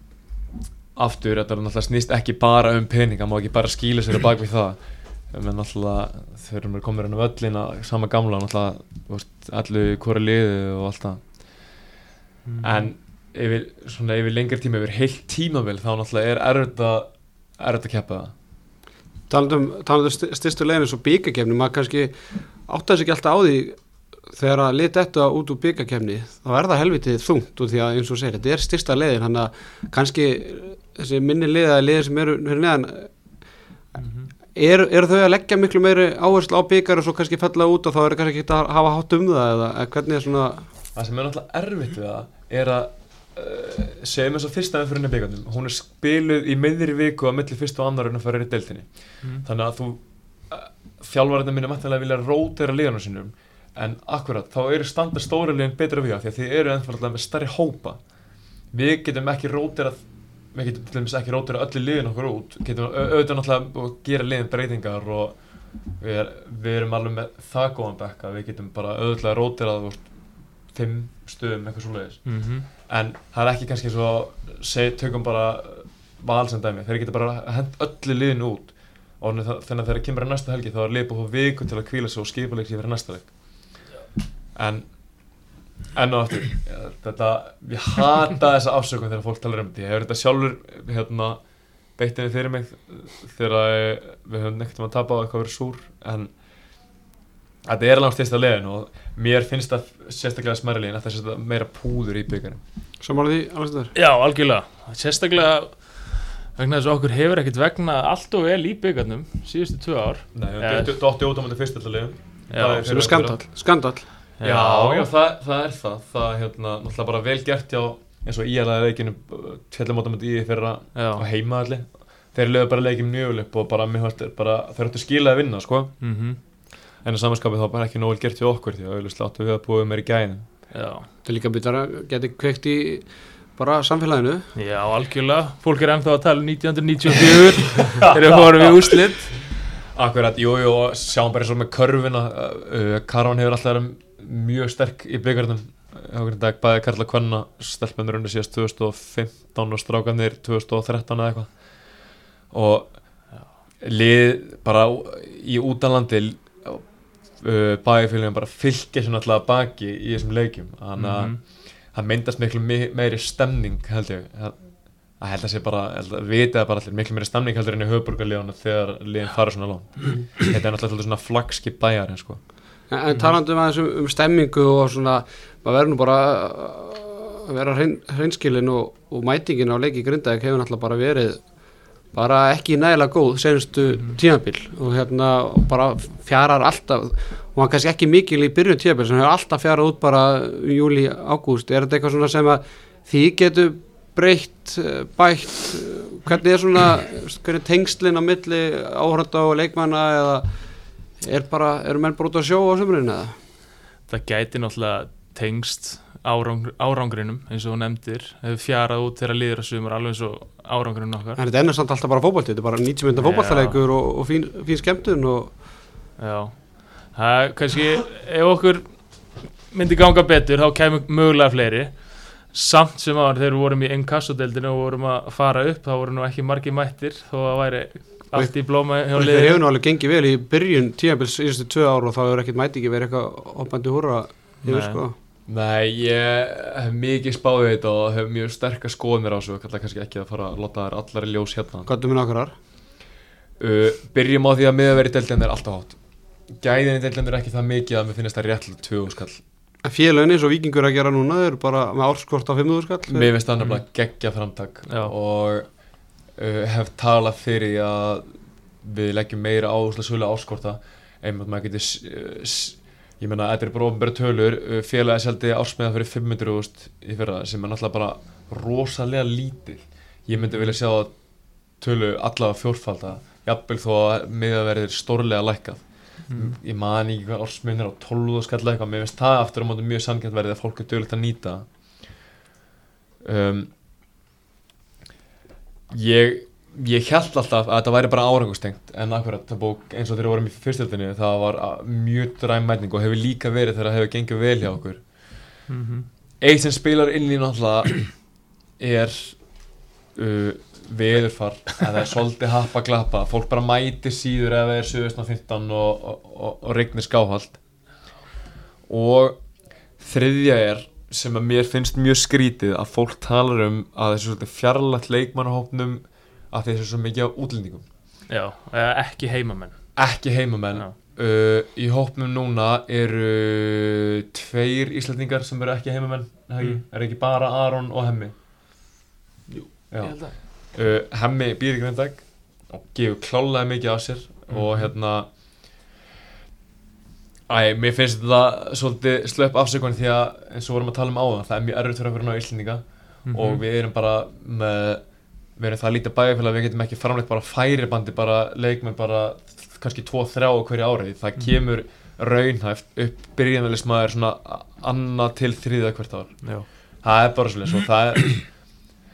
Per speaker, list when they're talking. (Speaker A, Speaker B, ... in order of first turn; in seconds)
Speaker A: 1.0-11.8, 12.6-18.3, 41.0-58.0, 58.7-83.8, 84.5-85.0, 85.9-91.4, 92.0-96.3, 97.7-102.6, 110.3-113.4, 114.4-126.0, 127.0-130.5, 139.9-172.4, 235.5-241.9, 243.6-249.4, 253.1-282.2, 283.2-283.7, 285.9-295.3, 296.4-307.6, 308.9-309.4, 309.9-317.8, 320.0-328.3, 329.9-335.3, 337.5-345.0, 345.6-358.8
Speaker B: 12.4-12.9, 34.0-34.3, 72.3-72.7, 104.0-110.9, 112.5-112.9, 114.4-115.1, 121.0-121.2, 126.0-126.4, 130.7-131.1, 134.6-139.5, 161.0-161.4, 173.1-173.3, 183.9-184.2, 204.1-211.4, 213.2-213.8, 216.2-229.6, 234.6-235.0, 253.6-253.8, 254.9-255.1, 270.3-270.8, 276.2-276.6, 295.7-296.1, 318.3-319.8, 329.5-330.4, 334.5-334.9, 343.3-343.6
Speaker C: 19.3-23.8, 24.3-33.1, 34.5-40.7, 103.0-103.9, 112.8-114.1, 131.2-134.5, 172.9-203.4, 211.4-215.6, 228.3-235.2, 241.9-242.6, 249.8-253.3